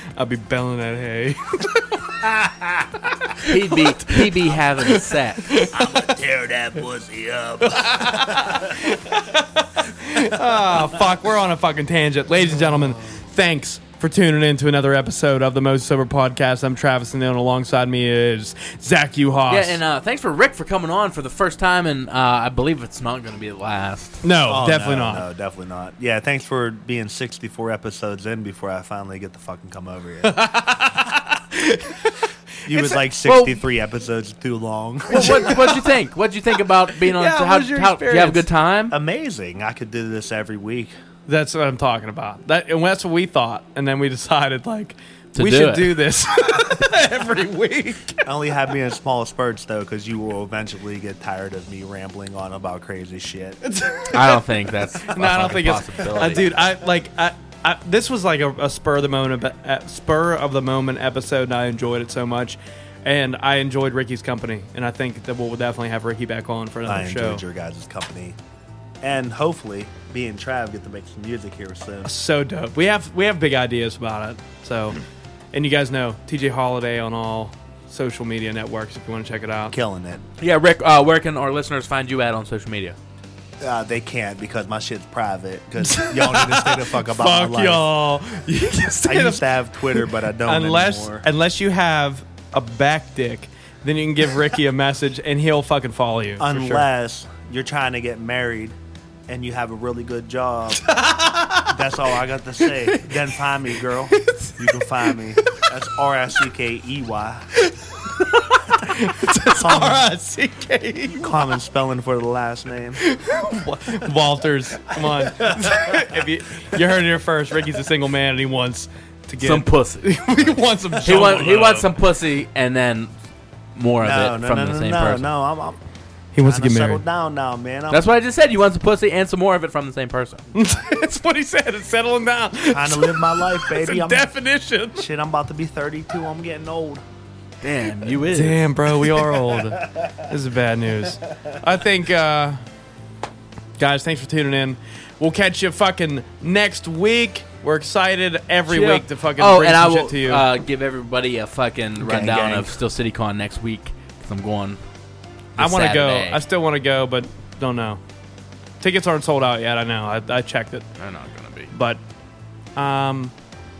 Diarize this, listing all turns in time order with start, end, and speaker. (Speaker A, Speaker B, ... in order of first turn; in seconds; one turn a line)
Speaker A: 0.1-2.0
Speaker B: 2.2-3.1
Speaker C: 3.4-5.6
Speaker A: 4.8-5.9
Speaker B: 5.7-9.0
Speaker A: 7.6-19.8
Speaker B: 10.1-11.0
Speaker C: 19.5-24.2
Speaker A: 24.2-25.2
Speaker B: 24.4-30.9
Speaker A: 30.2-33.0
Speaker B: 32.6-35.6
Speaker C: 33.2-33.5
Speaker C: 35.1-39.0
Speaker A: 35.1-35.9
Speaker A: 37.0-38.5
Speaker B: 38.9-40.9
Speaker A: 41.3-48.2
Speaker C: 45.3-46.0
Speaker B: 48.2-53.6
Speaker A: 53.6-54.4
Speaker C: 54.1-56.6
Speaker A: 55.0-67.4
Speaker B: 66.8-68.3
Speaker B: 69.0-72.1
Speaker A: 72.0-75.0
Speaker A: 75.5-79.8
Speaker B: 79.7-80.2
Speaker C: 80.4-83.0
Speaker B: 83.6-87.9
Speaker A: 85.8-96.9
Speaker B: 89.0-91.2
Speaker B: 96.4-98.8
Speaker B: 99.3-100.9
Speaker A: 100.8-101.9
Speaker B: 101.7-107.5
Speaker A: 102.6-103.4
Speaker A: 104.1-105.7
Speaker A: 107.5-111.4
Speaker B: 109.2-110.0
Speaker B: 111.1-113.0
Speaker A: 113.0-121.9
Speaker B: 115.0-116.1
Speaker C: 119.4-123.1
Speaker C: 123.7-125.3
Speaker B: 124.0-125.8
Speaker A: 126.3-127.0
Speaker B: 126.4-128.1
Speaker C: 127.9-130.4
Speaker A: 130.5-135.1
Speaker B: 132.7-134.3
Speaker B: 134.9-137.0
Speaker C: 137.6-138.7
Speaker A: 138.3-142.6
Speaker A: 143.8-150.4
Speaker C: 148.7-154.8
Speaker B: 152.0-152.8
Speaker C: 155.6-156.4
Speaker A: 155.6-158.0
Speaker A: 158.8-160.8
Speaker C: 161.0-161.7
Speaker A: 161.7-162.0
Speaker A: 162.8-163.3